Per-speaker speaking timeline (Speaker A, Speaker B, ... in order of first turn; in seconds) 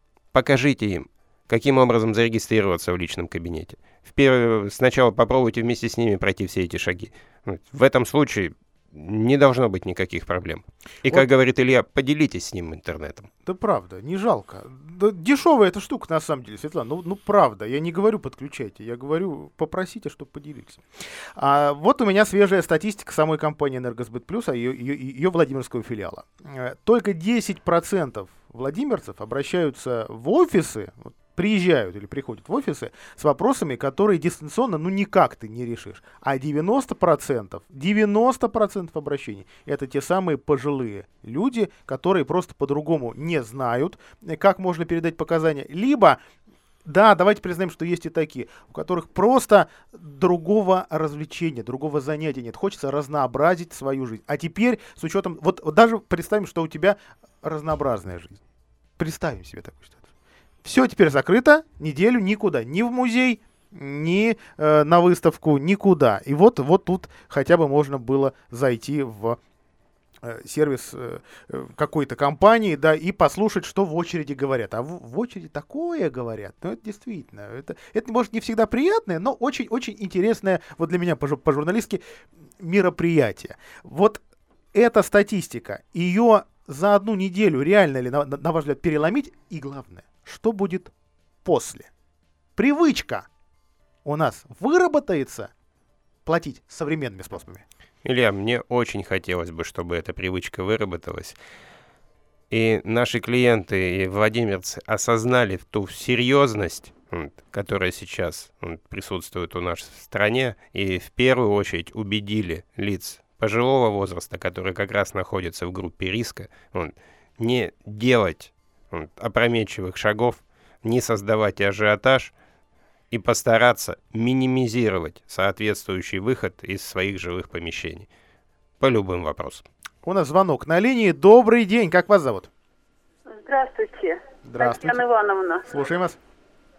Speaker A: 0.3-13.3, 98.0-101.4, 102.5-122.3, 123.1-128.1, 128.8-129.6
Speaker B: 13.4-20.8, 21.4-46.2, 46.9-58.4, 59.0-60.1, 60.6-69.4, 70.2-82.0, 82.6-84.2, 84.7-90.9, 91.5-91.9, 92.6-93.3, 94.0-95.5, 96.2-97.6, 130.0-132.5, 134.4-135.0, 135.7-136.2
Speaker C: 133.3-135.7